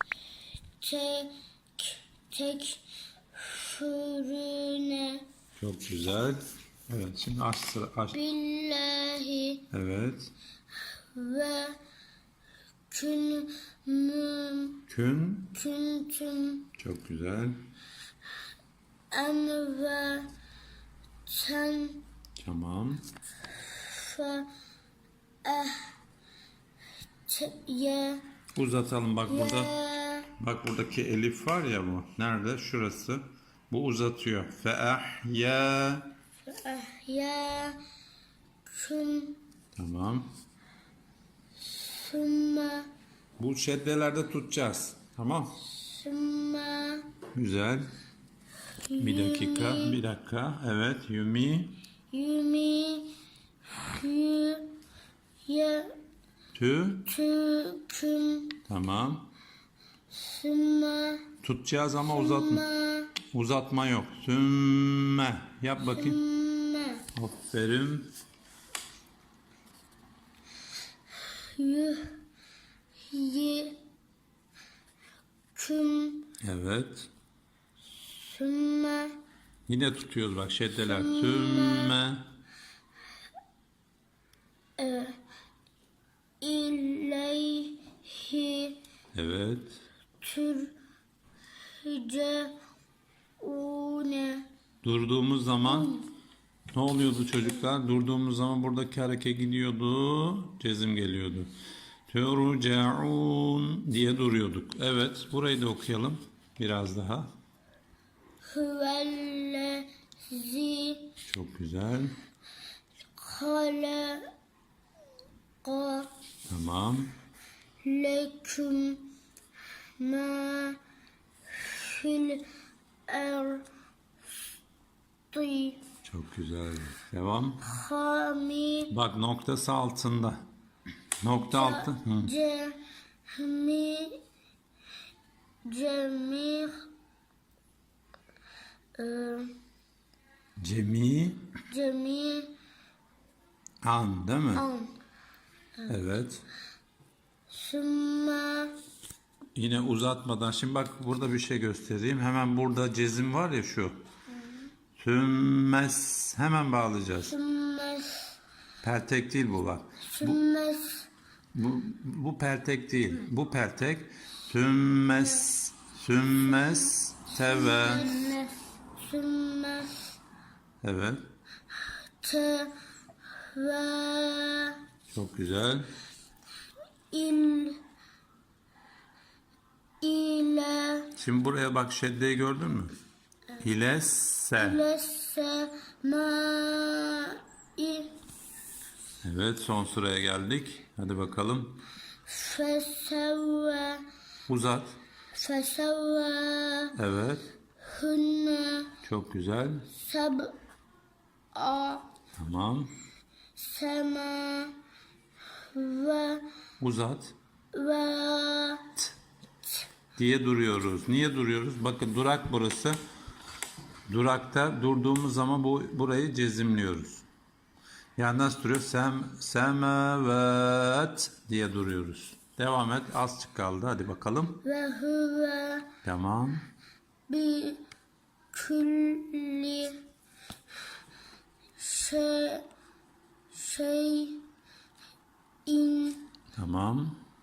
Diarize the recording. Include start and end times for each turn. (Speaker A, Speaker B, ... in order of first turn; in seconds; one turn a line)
Speaker A: 0.8-2.8
Speaker A: 3.3-5.2
Speaker B: 5.6-8.2
Speaker A: 8.1-9.6
Speaker B: 9.7-10.3
Speaker A: 11.1-11.8
Speaker A: 12.9-14.8
Speaker B: 14.9-15.5
Speaker A: 15.5-16.7
Speaker B: 16.8-17.6
Speaker A: 19.1-20.3
Speaker A: 21.3-22.0
Speaker B: 22.4-23.0
Speaker A: 23.6-24.5
Speaker A: 25.4-25.9
Speaker A: 27.3-28.2
Speaker B: 28.5-29.7
Speaker A: 29.3-30.3
Speaker B: 30.4-36.1
Speaker A: 36.5-37.8
Speaker A: 38.7-39.4
Speaker B: 39.8-40.3
Speaker A: 41.6-42.9
Speaker B: 43.4-45.6
Speaker A: 45.6-47.1
Speaker B: 47.3-47.9
Speaker A: 48.9-50.0
Speaker B: 49.0-51.8
Speaker A: 52.1-53.1
Speaker A: 53.8-54.7
Speaker A: 55.4-56.0
Speaker B: 56.5-57.1
Speaker A: 57.0-58.6
Speaker B: 58.7-59.3
Speaker A: 60.1-61.3
Speaker B: 61.4-62.6
Speaker A: 62.1-63.1
Speaker B: 63.2-66.2
Speaker A: 65.9-67.0
Speaker B: 67.1-68.1
Speaker A: 71.4-72.1
Speaker A: 73.1-73.8
Speaker A: 75.5-76.3
Speaker B: 76.4-77.1
Speaker A: 77.9-79.2
Speaker B: 79.7-82.2
Speaker A: 80.8-82.0
Speaker A: 84.8-85.2
Speaker A: 86.4-88.8
Speaker B: 89.1-89.8
Speaker A: 90.2-90.8
Speaker A: 91.7-92.5
Speaker A: 93.4-94.5
Speaker B: 94.8-95.9
Speaker A: 95.6-96.1
Speaker B: 96.7-101.5
Speaker B: 102.1-107.3
Speaker A: 108.5-111.1
Speaker B: 111.2-112.1
Speaker A: 113.2-114.3
Speaker A: 115.6-116.1
Speaker B: 116.5-117.1
Speaker A: 117.8-119.1
Speaker A: 120.0-120.8
Speaker A: 121.5-122.4
Speaker A: 123.1-123.7
Speaker A: 125.3-125.8
Speaker B: 126.0-127.6
Speaker A: 127.6-128.9
Speaker B: 128.9-130.4
Speaker B: 131.2-132.3
Speaker A: 131.5-132.8
Speaker A: 133.3-134.2
Speaker A: 135.7-136.8
Speaker A: 139.0-139.5
Speaker B: 140.6-141.5
Speaker A: 141.7-142.5
Speaker B: 143.8-144.7
Speaker A: 144.5-144.9
Speaker B: 145.9-146.4
Speaker A: 147.5-148.7
Speaker B: 149.6-153.9
Speaker B: 155.0-157.3
Speaker A: 157.2-158.3
Speaker B: 158.8-160.4
Speaker A: 160.1-161.1
Speaker B: 161.5-168.3
Speaker A: 167.3-170.2
Speaker B: 170.8-171.2
Speaker A: 172.2-172.7
Speaker A: 173.4-174.8
Speaker B: 175.1-175.9
Speaker A: 177.1-177.8
Speaker A: 180.0-181.1
Speaker B: 181.2-182.9
Speaker B: 183.6-184.8
Speaker A: 184.6-188.1
Speaker B: 189.2-191.8
Speaker A: 192.3-194.0
Speaker B: 194.5-195.0
Speaker A: 195.3-196.9
Speaker B: 196.9-197.4
Speaker A: 197.8-198.9
Speaker B: 199.0-199.9
Speaker A: 199.9-200.5
Speaker A: 201.5-202.1
Speaker B: 202.4-202.9
Speaker A: 203.6-204.7
Speaker A: 205.7-206.4
Speaker B: 206.8-207.3
Speaker A: 207.7-208.9
Speaker B: 210.2-213.0
Speaker B: 214.1-217.2
Speaker B: 218.2-224.6
Speaker A: 224.6-225.9
Speaker B: 226.0-226.6
Speaker A: 227.3-227.8
Speaker A: 228.5-230.0
Speaker A: 231.8-232.7
Speaker A: 233.5-234.4
Speaker A: 235.7-236.3
Speaker B: 236.6-237.2